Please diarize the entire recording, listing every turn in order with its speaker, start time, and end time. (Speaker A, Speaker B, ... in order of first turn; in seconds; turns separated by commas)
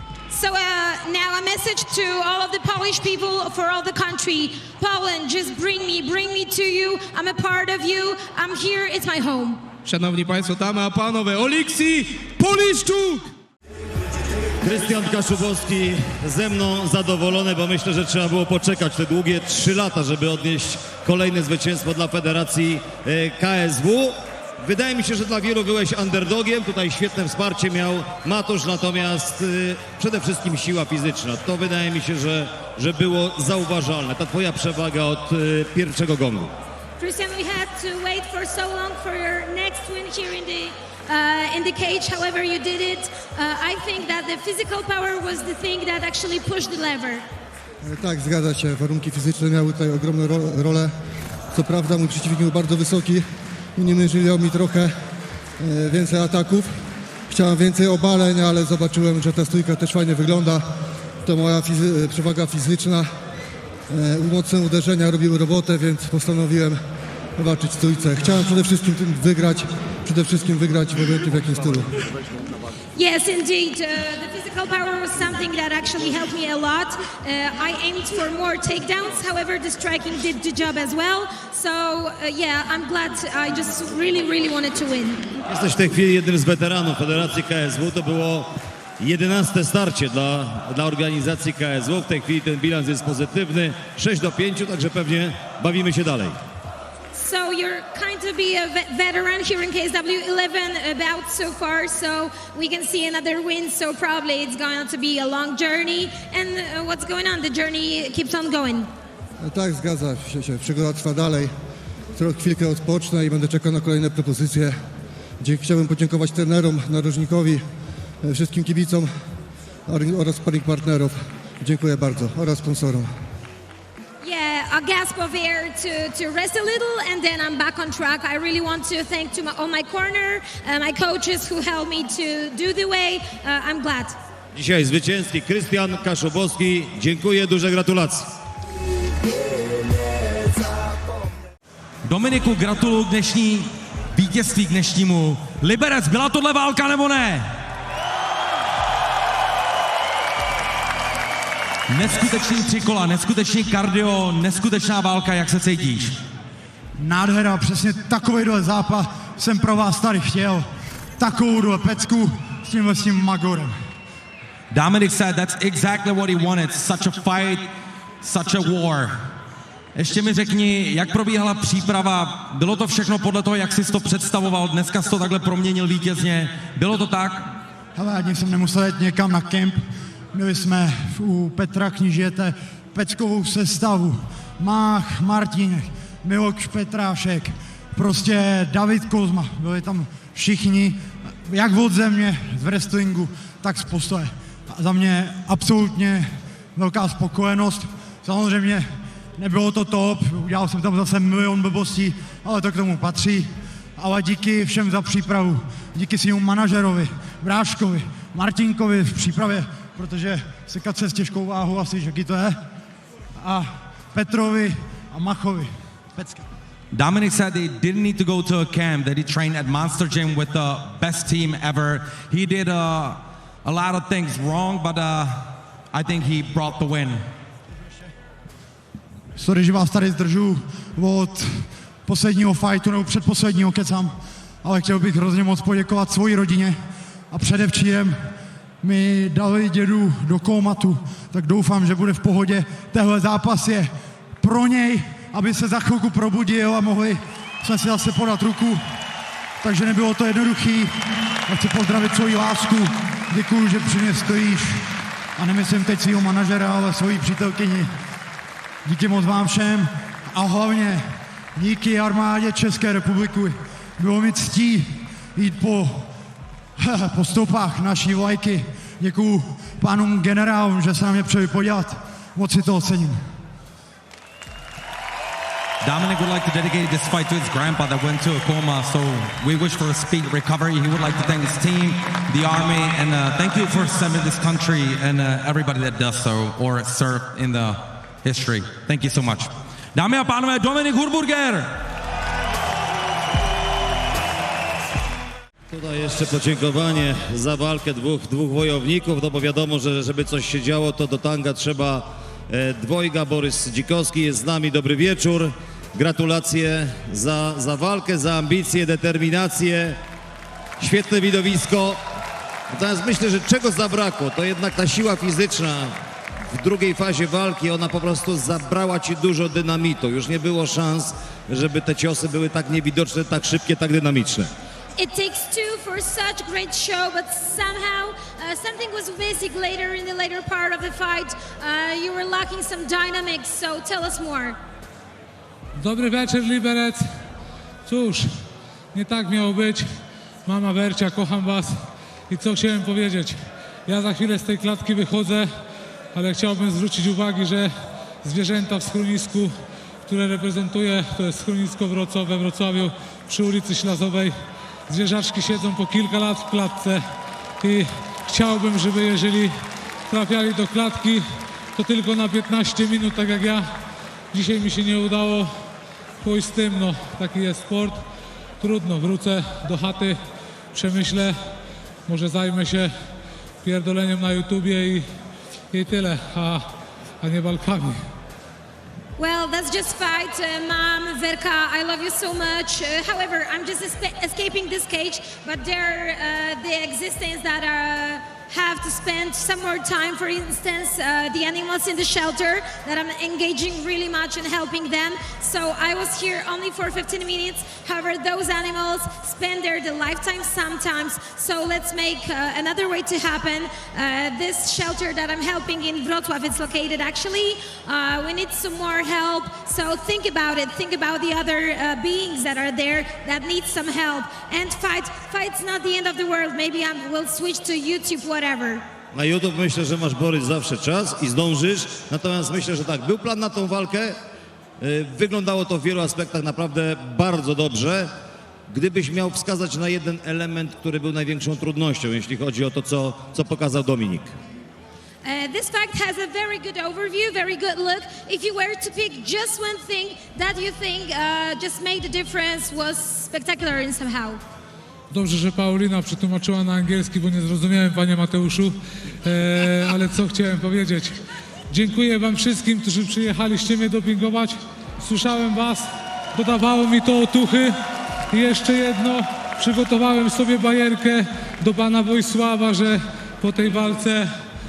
Speaker A: 0.3-9.6, Speaker B: 9.8-13.3, Speaker C: 14.6-36.5, Speaker A: 37.0-47.3, Speaker D: 47.8-50.9, Speaker D: 51.5-55.0, Speaker D: 55.6-56.8, Speaker D: 57.3-60.7, Speaker D: 61.2-63.1, Speaker D: 63.9-66.8, Speaker D: 67.4-71.9, Speaker A: 73.0-85.4, Speaker C: 85.5-96.4, Speaker A: 97.1-108.9, Speaker D: 109.4-111.5, Speaker D: 112.2-114.8, Speaker D: 115.4-117.7, Speaker D: 118.2-119.1, Speaker D: 119.9-123.1, Speaker A: 124.2-134.2, Speaker C: 134.5-138.3, Speaker E: 142.1-147.5, Speaker E: 151.9-156.2, Speaker F: 157.0-163.8, Speaker E: 164.7-167.7, Speaker E: 168.2-169.2, Speaker E: 169.9-177.5, Speaker F: 178.0-179.8, Speaker F: 180.3-212.6, Speaker F: 213.4-216.4, Speaker E: 216.9-227.2, Speaker F: 229.3-236.8, Speaker F: 237.3-238.2, Speaker F: 238.8-248.8, Speaker F: 249.6-250.9, Speaker F: 251.5-254.8, Speaker F: 255.4-257.9, Speaker F: 258.9-266.1, Speaker F: 266.8-273.2, Speaker E: 275.8-291.8, Speaker C: 295.7-310.0, Speaker C: 310.8-312.0, Speaker C: 312.7-316.0, Speaker C: 316.5-324.5, Speaker A: 325.0-334.6, Speaker G: 335.8-337.1, Speaker G: 337.9-338.3, Speaker G: 338.9-339.9, Speaker G: 340.5-341.7, Speaker G: 342.3-345.5, Speaker G: 346.1-347.7, Speaker G: 348.2-349.5, Speaker G: 350.1-354.4, Speaker G: 354.9-357.0, Speaker G: 357.6-359.6, Speaker G: 360.1-361.2, Speaker G: 361.8-363.7, Speaker G: 364.3-365.5, Speaker G: 366.2-368.0, Speaker G: 368.6-370.2, Speaker G: 370.7-371.4, Speaker G: 372.1-372.9, Speaker G: 373.6-375.1, Speaker G: 375.7-376.7, Speaker G: 377.2-378.0, Speaker A: 379.2-418.9, Speaker C: 419.1-424.2, Speaker C: 424.8-428.1, Speaker C: 428.7-434.3, Speaker A: 435.2-444.4, Speaker G: 445.1-451.2, Speaker G: 451.7-457.8, Speaker G: 458.3-464.3